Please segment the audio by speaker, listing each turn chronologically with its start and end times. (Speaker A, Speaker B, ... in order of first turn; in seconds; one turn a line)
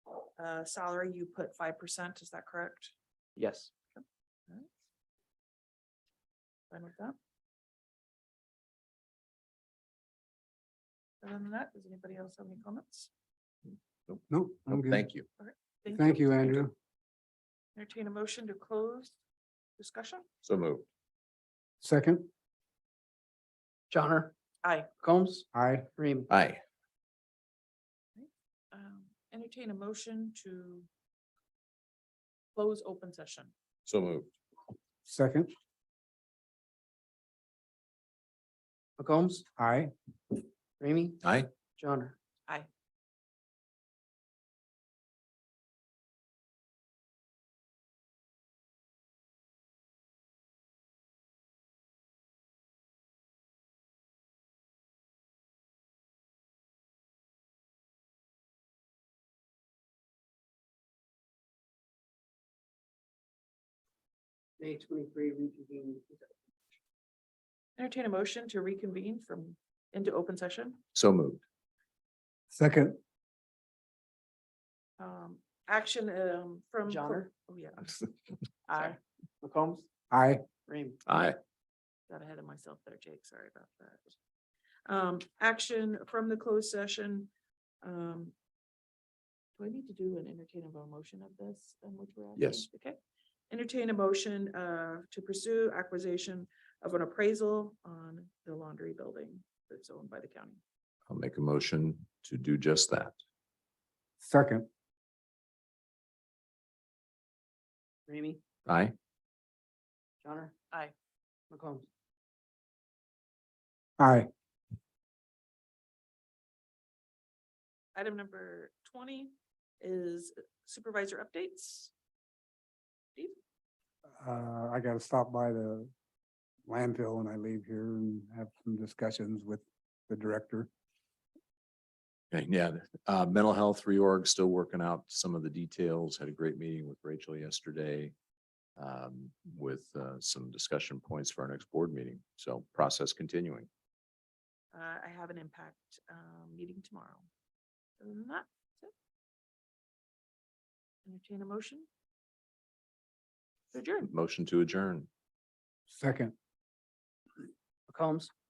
Speaker A: 0.4-2.9
Speaker B: 3.4-3.7
Speaker A: 4.0-4.7
Speaker A: 6.7-7.2
Speaker A: 11.2-13.1
Speaker C: 14.1-15.3
Speaker D: 14.3-15.1
Speaker A: 15.4-16.6
Speaker D: 15.9-16.7
Speaker A: 17.8-19.2
Speaker A: 19.8-20.2
Speaker C: 20.4-20.9
Speaker D: 21.8-22.3
Speaker B: 23.9-24.3
Speaker A: 24.6-24.9
Speaker B: 25.0-26.3
Speaker D: 25.5-25.9
Speaker C: 26.3-26.6
Speaker A: 28.2-30.9
Speaker A: 32.5-33.5
Speaker C: 33.9-34.3
Speaker D: 35.1-35.5
Speaker B: 39.0-39.5
Speaker D: 39.6-39.9
Speaker B: 40.8-41.2
Speaker C: 41.2-41.5
Speaker B: 41.8-42.2
Speaker B: 64.6-66.3
Speaker A: 67.8-70.8
Speaker C: 70.9-71.4
Speaker D: 72.5-73.0
Speaker A: 75.0-78.0
Speaker B: 76.9-77.3
Speaker A: 78.7-79.0
Speaker B: 78.8-79.9
Speaker D: 80.1-80.5
Speaker B: 80.7-81.0
Speaker C: 81.1-81.4
Speaker A: 82.1-84.1
Speaker A: 84.9-87.3
Speaker A: 87.8-88.3
Speaker A: 89.6-93.0
Speaker C: 92.4-92.7
Speaker A: 93.5-100.6
Speaker C: 101.1-103.2
Speaker D: 104.2-104.7
Speaker B: 108.1-108.4
Speaker C: 108.7-108.9
Speaker B: 110.2-110.5
Speaker B: 111.5-111.9
Speaker D: 114.0-114.3
Speaker A: 118.0-121.9
Speaker D: 124.2-125.9
Speaker D: 126.7-130.7
Speaker C: 132.3-138.1
Speaker C: 138.8-143.7
Speaker A: 144.7-147.3
Speaker A: 148.0-148.9
Speaker A: 151.1-151.9
Speaker A: 153.7-154.1
Speaker C: 154.0-155.1
Speaker D: 155.9-156.3
Speaker B: 157.9-158.3